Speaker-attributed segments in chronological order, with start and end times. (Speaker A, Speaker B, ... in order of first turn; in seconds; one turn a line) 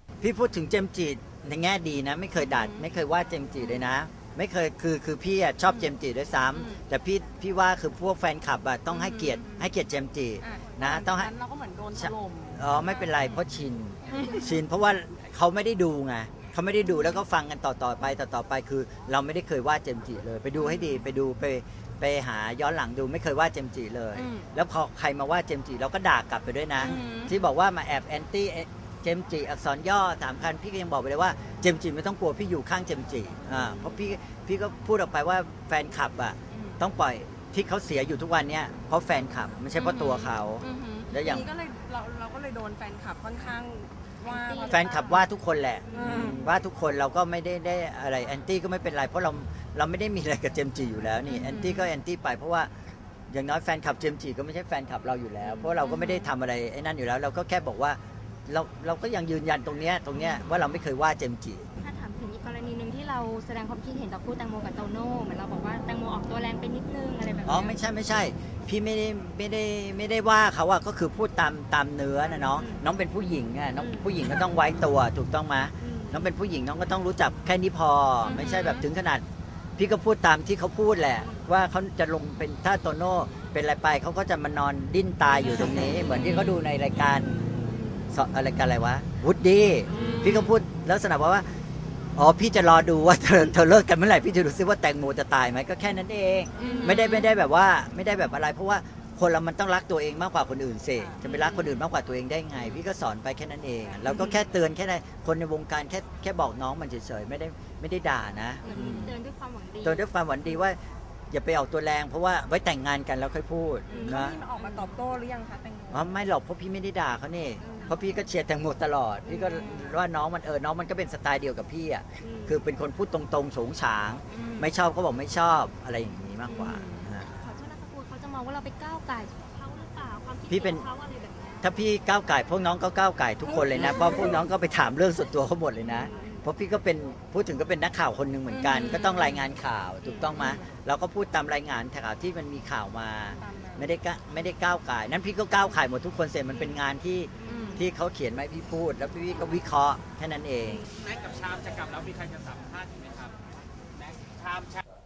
Speaker A: 0.2-11.3
Speaker B: 2.4-2.9
Speaker B: 3.6-3.9
Speaker B: 5.7-5.9
Speaker B: 6.5-6.8
Speaker B: 8.9-9.7
Speaker B: 10.4-13.4
Speaker A: 11.9-41.5
Speaker B: 14.1-14.6
Speaker B: 16.8-17.2
Speaker B: 20.6-21.0
Speaker B: 24.1-24.4
Speaker B: 26.8-27.3
Speaker B: 36.5-36.8
Speaker B: 40.7-45.2
Speaker A: 44.6-52.7
Speaker B: 45.9-46.4
Speaker B: 51.3-51.8
Speaker A: 53.3-61.6
Speaker C: 55.6-56.1
Speaker C: 61.8-67.7
Speaker A: 67.4-79.2
Speaker C: 72.2-72.8
Speaker C: 73.8-74.1
Speaker C: 75.8-76.1
Speaker C: 78.2-78.6
Speaker A: 79.8-87.3
Speaker C: 85.5-86.5
Speaker C: 87.5-88.0
Speaker A: 88.1-91.4
Speaker C: 89.9-90.5
Speaker A: 92.2-109.2
Speaker B: 96.6-96.9
Speaker C: 96.6-97.1
Speaker B: 101.0-101.2
Speaker C: 101.4-101.7
Speaker B: 103.8-104.4
Speaker B: 108.7-109.2
Speaker C: 108.7-109.9
Speaker A: 109.8-110.8
Speaker A: 111.3-114.4
Speaker B: 113.9-116.2
Speaker C: 114.6-114.9
Speaker A: 115.9-127.3
Speaker B: 117.6-117.9
Speaker B: 119.3-120.0
Speaker C: 127.4-131.5
Speaker A: 130.5-130.8
Speaker A: 131.6-150.9
Speaker B: 133.4-134.4
Speaker C: 135.9-136.2
Speaker B: 138.5-139.3
Speaker B: 140.0-140.7
Speaker B: 143.4-143.9
Speaker B: 147.4-147.8
Speaker D: 151.0-153.3
Speaker D: 154.0-154.8